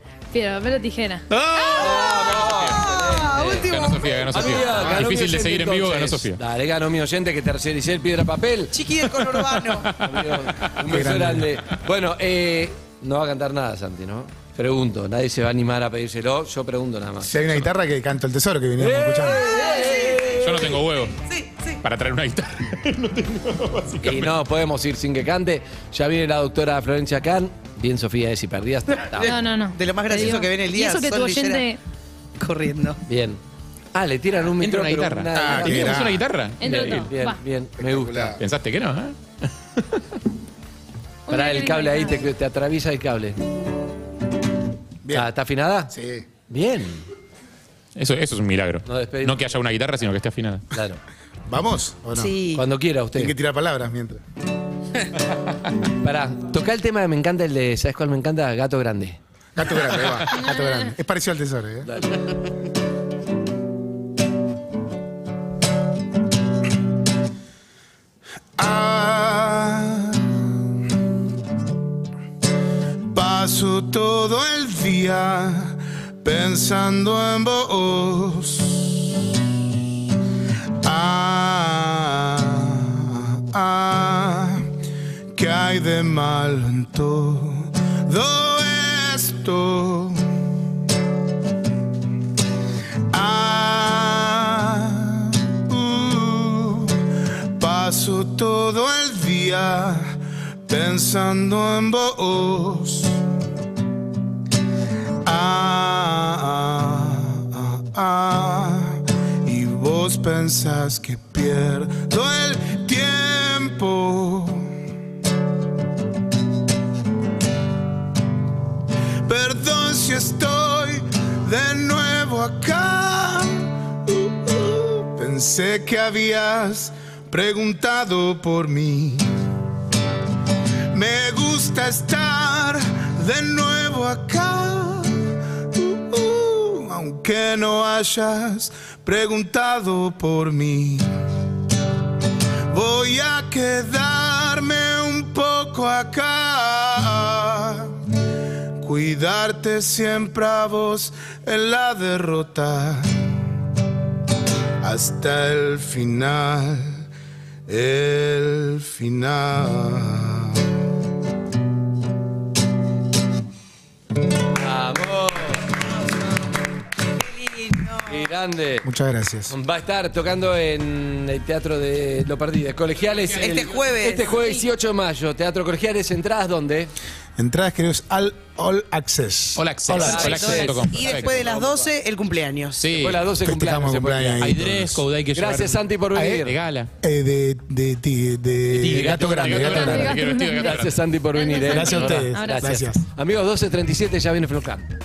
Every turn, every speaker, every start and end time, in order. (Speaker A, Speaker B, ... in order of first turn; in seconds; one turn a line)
Speaker A: 0.3-2.1
Speaker B: 1.4-1.8
Speaker C: 1.7-3.7
Speaker D: 1.8-4.9
Speaker B: 2.4-2.8
Speaker B: 3.7-6.4
Speaker C: 4.3-8.8
Speaker E: 4.8-5.0
Speaker D: 8.7-10.1
Speaker C: 9.8-17.3
Speaker E: 10.8-11.6
Speaker E: 17.2-19.6
Speaker C: 18.8-20.8
Speaker D: 19.3-21.8
Speaker B: 20.4-21.2
Speaker B: 21.8-24.3
Speaker C: 24.0-29.3
Speaker A: 29.2-31.8
Speaker D: 29.2-31.6
Speaker D: 32.4-33.0
Speaker C: 33.1-33.4
Speaker C: 33.9-38.4
Speaker B: 34.6-36.6
Speaker E: 35.3-36.2
Speaker A: 36.6-37.4
Speaker E: 37.8-38.4
Speaker B: 38.4-39.2
Speaker A: 41.3-42.3
Speaker C: 41.3-43.4
Speaker E: 45.0-45.3
Speaker C: 45.1-45.9
Speaker E: 45.9-46.2
Speaker C: 46.5-47.0
Speaker B: 47.9-50.7
Speaker C: 48.9-49.4
Speaker C: 50.7-51.0
Speaker E: 51.5-52.4
Speaker D: 52.1-52.6
Speaker C: 52.5-53.3
Speaker E: 53.1-54.2
Speaker C: 56.0-59.2
Speaker E: 59.5-61.9
Speaker A: 60.3-60.9
Speaker C: 61.8-62.2
Speaker E: 68.6-70.7
Speaker E: 73.1-79.1
Speaker E: 80.8-84.7
Speaker E: 85.3-90.5
Speaker E: 93.1-103.2
Speaker E: 105.2-114.8
Speaker E: 119.2-129.3
Speaker E: 130.9-141.1
Speaker E: 142.7-148.0
Speaker E: 148.8-153.4
Speaker E: 154.8-157.0
Speaker E: 157.7-160.7
Speaker C: 164.5-165.6
Speaker D: 167.2-168.1
Speaker C: 168.1-168.8
Speaker E: 168.8-169.5
Speaker C: 169.5-176.9
Speaker D: 173.4-174.4
Speaker E: 177.4-180.6
Speaker B: 179.6-181.4
Speaker C: 180.0-181.9
Speaker D: 180.1-182.9
Speaker B: 182.8-183.2
Speaker C: 183.0-184.5
Speaker E: 183.4-185.0
Speaker B: 184.4-186.9
Speaker C: 185.3-186.6
Speaker E: 186.1-186.4
Speaker E: 187.0-190.1
Speaker B: 188.7-191.0
Speaker C: 188.9-190.0
Speaker A: 189.6-190.8
Speaker C: 190.6-194.9
Speaker A: 191.3-192.7
Speaker E: 191.7-193.0
Speaker B: 191.9-192.2